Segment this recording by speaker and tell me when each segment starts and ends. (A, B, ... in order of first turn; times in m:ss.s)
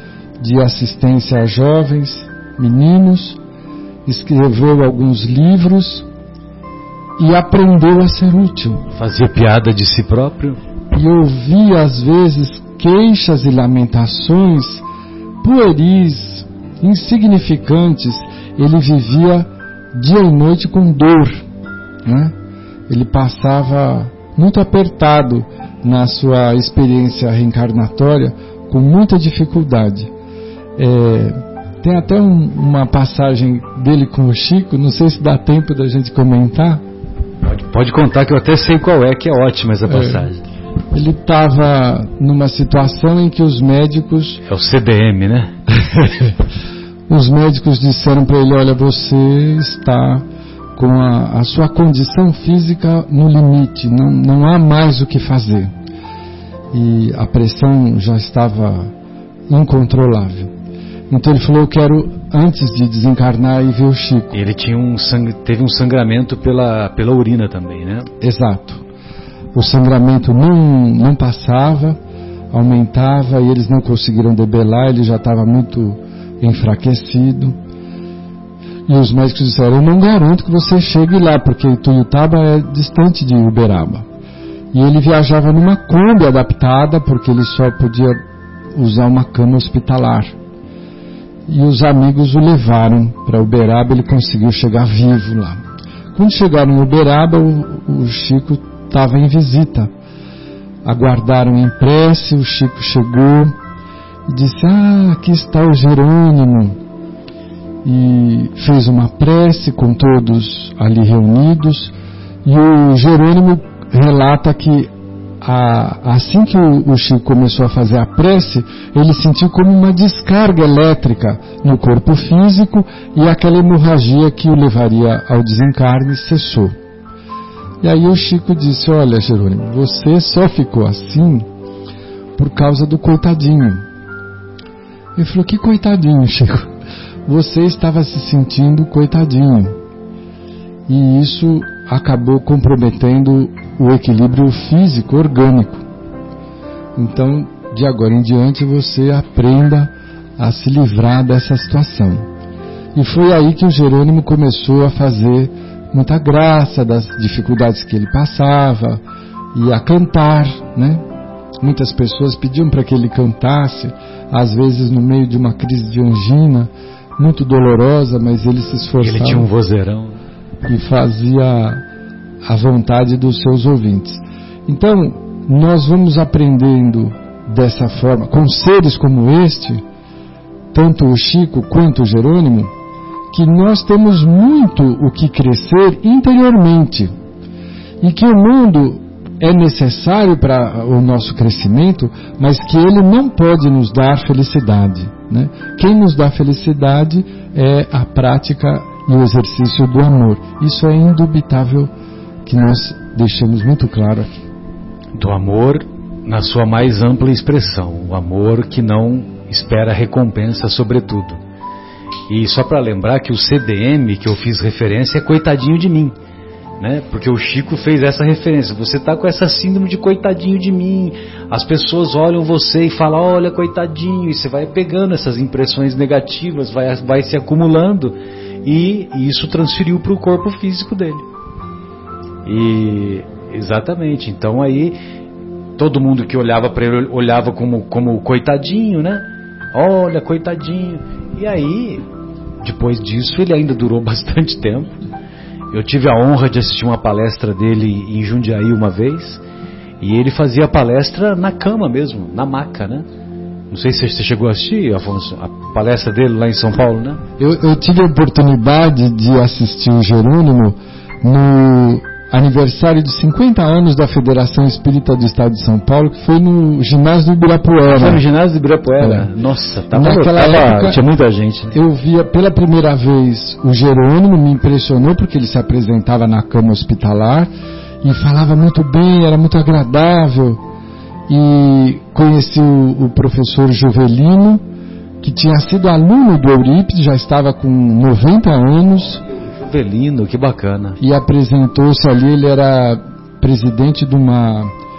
0:00.4-0:03.4 A
0:04.0-0:06.1 A
0:07.2-0:08.8 A
0:08.9-0:10.6 B
0:10.9-0:14.8 A
0:15.4-0:21.4 A
0:22.0-0:22.3 A
0:22.9-0:30.1 A
0:30.8-0:36.8 A
0:37.4-0:40.4 B
0:39.9-0:40.3 A
0:40.9-0:44.4 A
0:44.5-0:45.6 B
0:47.1-0:50.2 A
0:50.8-0:55.7 A
0:56.7-0:58.9 A
0:59.5-1:00.5 A
1:01.1-1:04.3 A
1:04.3-1:08.1 B
1:08.2-1:08.8 A
1:09.5-1:12.0 A
1:12.5-1:17.6 A
1:18.9-1:24.1 A
1:24.7-1:28.2 A
1:28.7-1:30.4 A
1:31.5-1:35.6 A
1:36.1-1:39.9 A
1:40.8-1:43.6 A
1:44.3-1:46.8 A
1:47.8-1:51.9 A
1:52.4-1:54.9 A
1:55.4-2:06.8 A
2:07.8-2:11.5 A
2:12.4-2:13.8 A
2:15.2-2:16.7 A
2:17.3-2:19.8 A
2:20.9-2:25.8 A
2:27.0-2:32.3 A
2:33.0-2:39.0 A
2:39.5-2:41.0 A
2:41.6-2:49.5 A
2:49.0-2:50.2 B
2:50.7-2:51.8 A
2:52.4-2:59.8 A
3:00.7-3:02.7 A
3:03.3-3:07.1 A
3:08.0-3:21.9 A
3:22.4-3:24.3 A
3:25.2-3:31.4 B
3:32.3-3:36.1 B
3:36.8-3:51.2 B
3:52.4-3:55.0 B
3:55.8-4:02.0 B
4:02.6-4:05.0 B
4:05.7-4:09.4 B
4:10.0-4:13.1 B
4:13.7-4:17.2 B
4:17.4-4:28.2 A
4:27.9-4:31.8 B
4:29.0-4:29.3 A
4:29.9-4:31.0 A
4:31.7-4:37.5 A
4:38.0-4:40.6 A
4:41.3-4:44.6 A
4:45.2-4:49.2 A
4:49.4-4:51.0 B
4:51.0-4:54.7 A